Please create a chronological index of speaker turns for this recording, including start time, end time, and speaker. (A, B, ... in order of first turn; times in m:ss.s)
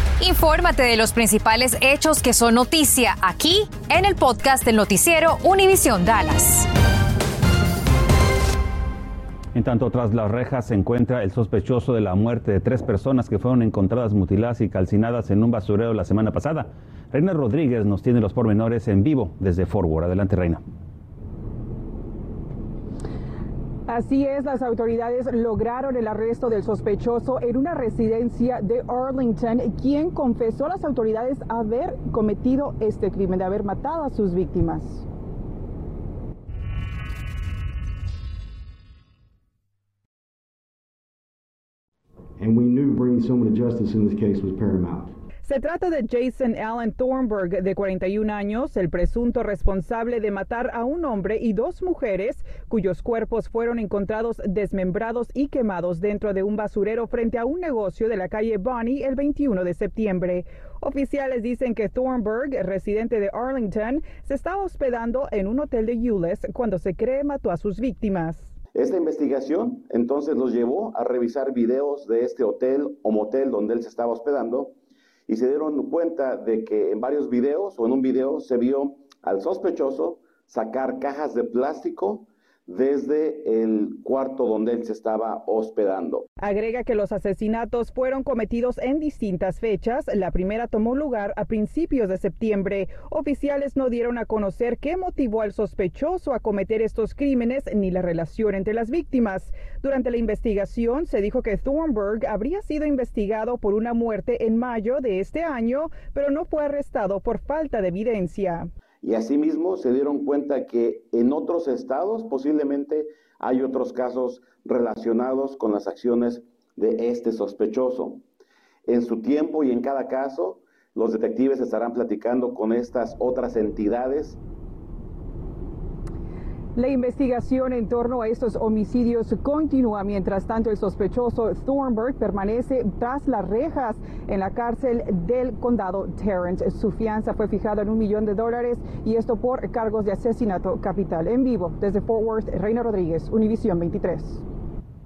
0:00.2-0:06.7 A
0:09.5-0:20.6 B
0:23.9-0:35.0 C
0:42.4-0:45.1 D
0:45.4-1:08.5 C
1:08.7-1:14.7 E
1:15.3-1:26.2 E
1:26.4-1:48.7 C
1:49.0-1:58.2 E
1:58.9-2:04.4 E
2:06.8-2:24.4 C